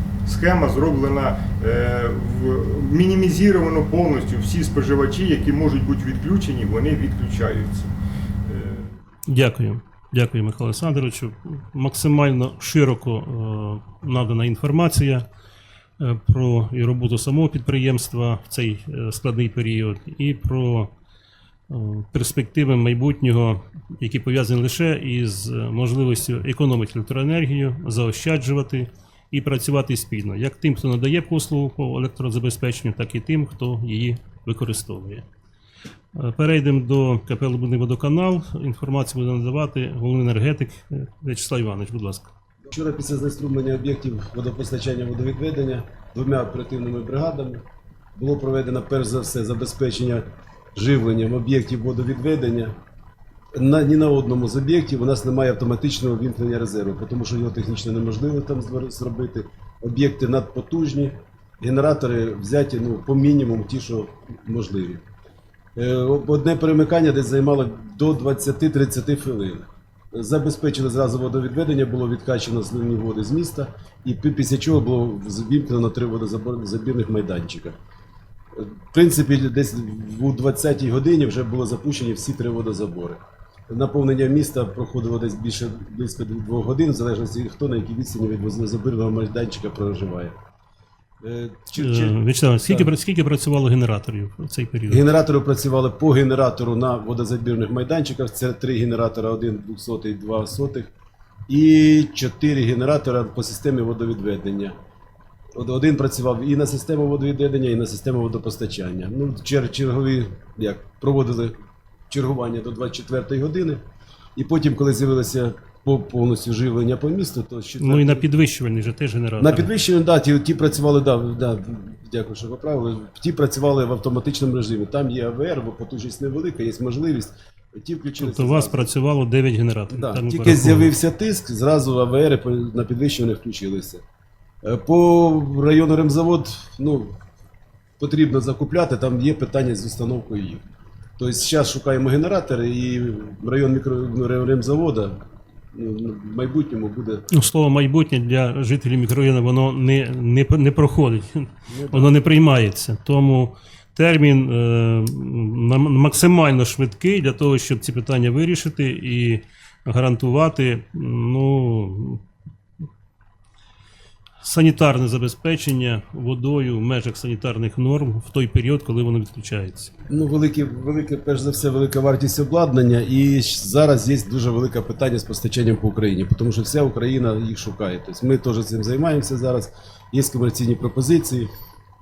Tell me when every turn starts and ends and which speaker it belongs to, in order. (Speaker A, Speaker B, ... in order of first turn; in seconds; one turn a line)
Speaker A: 0.2-7.9
Speaker A: 8.4-9.0
Speaker B: 9.3-15.2
Speaker B: 16.0-20.9
Speaker B: 21.7-35.2
Speaker B: 36.1-42.3
Speaker C: 42.7-47.6
Speaker C: 48.1-52.7
Speaker C: 53.5-65.0
Speaker C: 65.8-77.8
Speaker C: 78.5-90.3
Speaker C: 91.2-92.9
Speaker B: 91.8-95.0
Speaker C: 94.9-100.9
Speaker C: 101.5-104.7
Speaker C: 105.5-111.5
Speaker C: 112.1-113.8
Speaker C: 114.3-118.2
Speaker B: 117.8-119.7
Speaker C: 119.4-128.9
Speaker B: 128.2-130.9
Speaker C: 129.9-134.0
Speaker C: 134.6-137.2
Speaker C: 138.0-140.6
Speaker C: 141.2-145.2
Speaker C: 145.7-147.2
Speaker B: 147.3-162.2
Speaker C: 151.7-152.1
Speaker B: 164.4-169.9
Speaker C: 170.1-181.5